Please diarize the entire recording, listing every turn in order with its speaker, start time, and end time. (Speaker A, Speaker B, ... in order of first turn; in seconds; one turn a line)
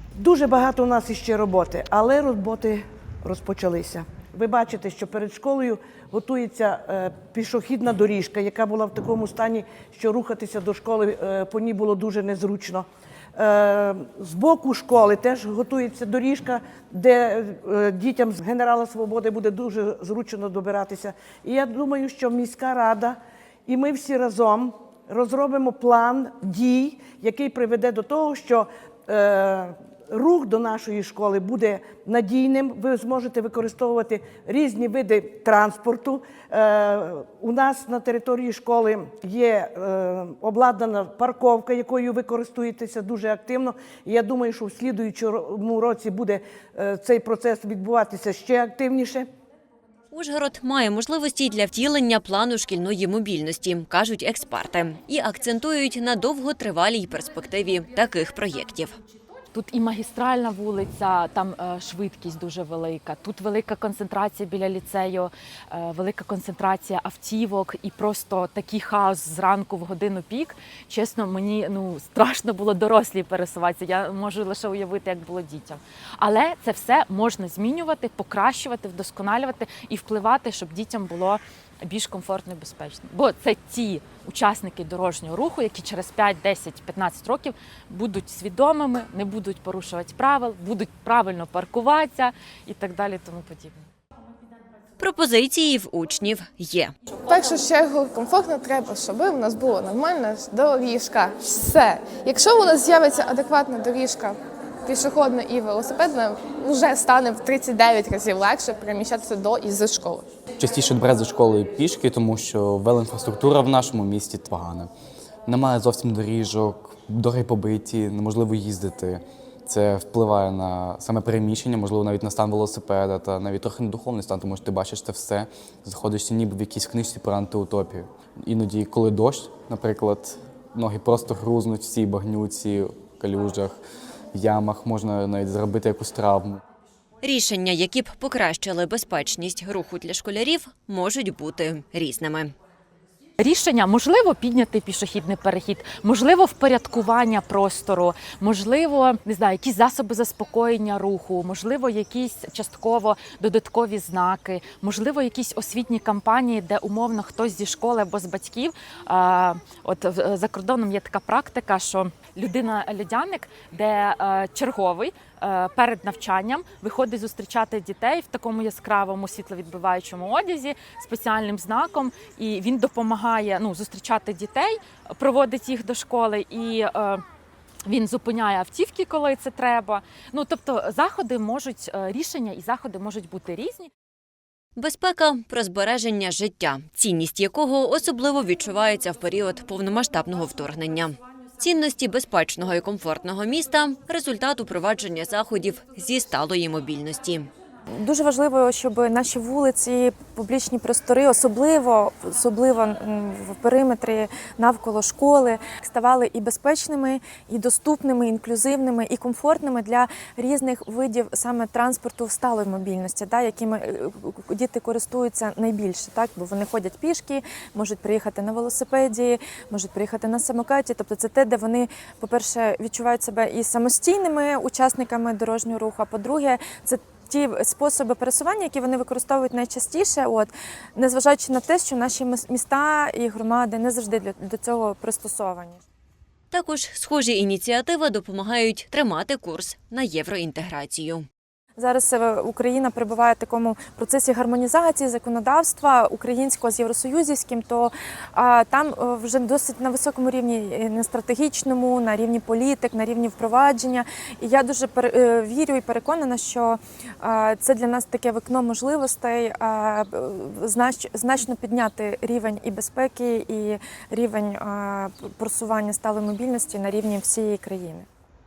Speaker A: 0.1-49.3
Speaker B: 50.1-59.0
Speaker C: 59.5-93.9
Speaker B: 95.0-96.9
Speaker D: 97.2-110.2
Speaker E: 110.6-114.9
Speaker E: 115.5-133.8
Speaker E: 134.3-136.6
Speaker B: 137.2-142.5
Speaker C: 143.4-177.2
Speaker C: 177.9-183.9
Speaker B: 184.8-197.5
Speaker F: 197.9-235.8
Speaker B: 236.5-241.2
Speaker F: 241.8-268.1